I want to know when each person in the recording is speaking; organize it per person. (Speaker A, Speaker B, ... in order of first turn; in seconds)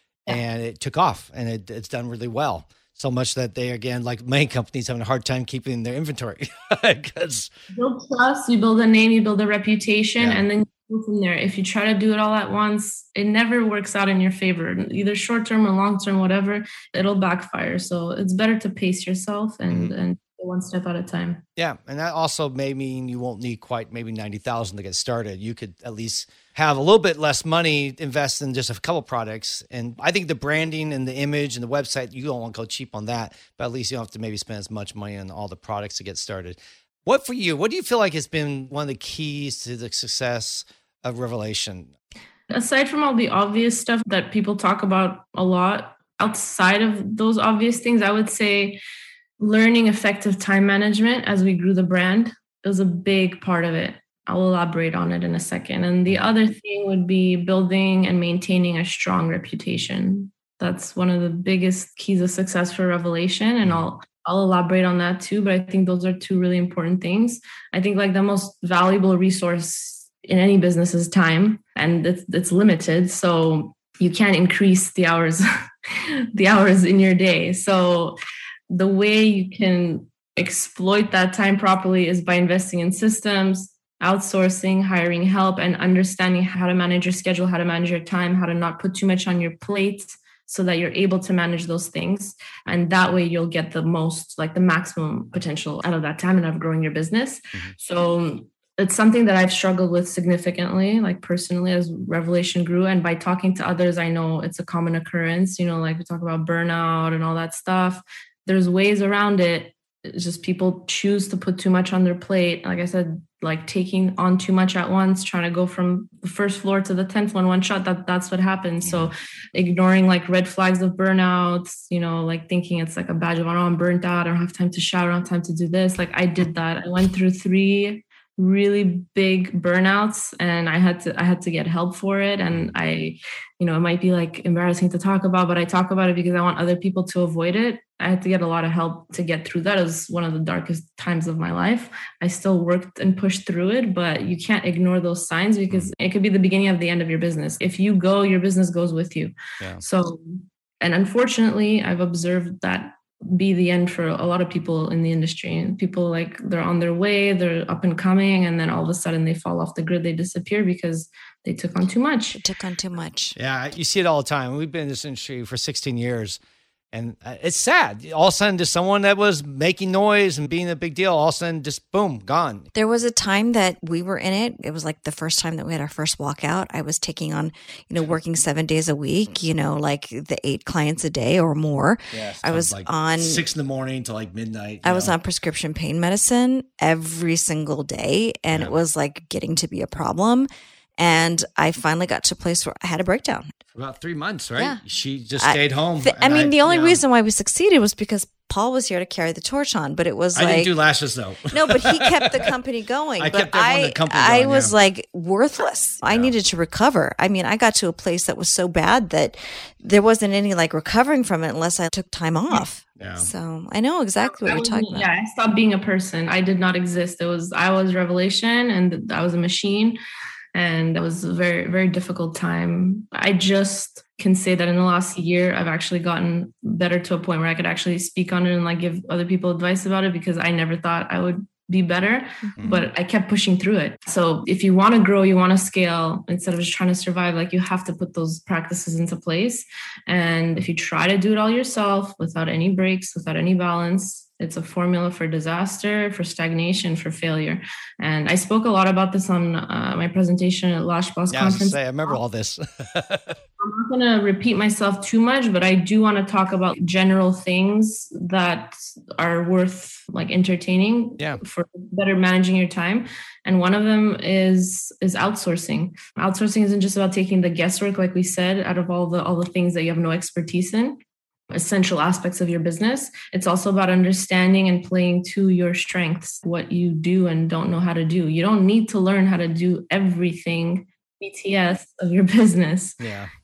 Speaker A: 0.3-7.5, 10.2-10.4, 21.6-41.9, 163.3-166.4, 166.9-172.7, 182.1-185.1, 193.7-197.0, 200.3-202.5, 203.2-204.7, 206.0-206.3, 213.0-213.3, 251.3-253.4, 283.0-283.3
Speaker B: 7.7-21.4, 42.5-48.8, 49.4-78.2, 78.7-162.4, 214.3-220.0, 220.5-252.2, 253.6-271.0, 271.5-283.0
Speaker C: 162.4-163.4, 172.7-183.4, 184.8-193.5, 194.6-194.8, 195.4-200.7, 201.5-215.1, 232.4-232.8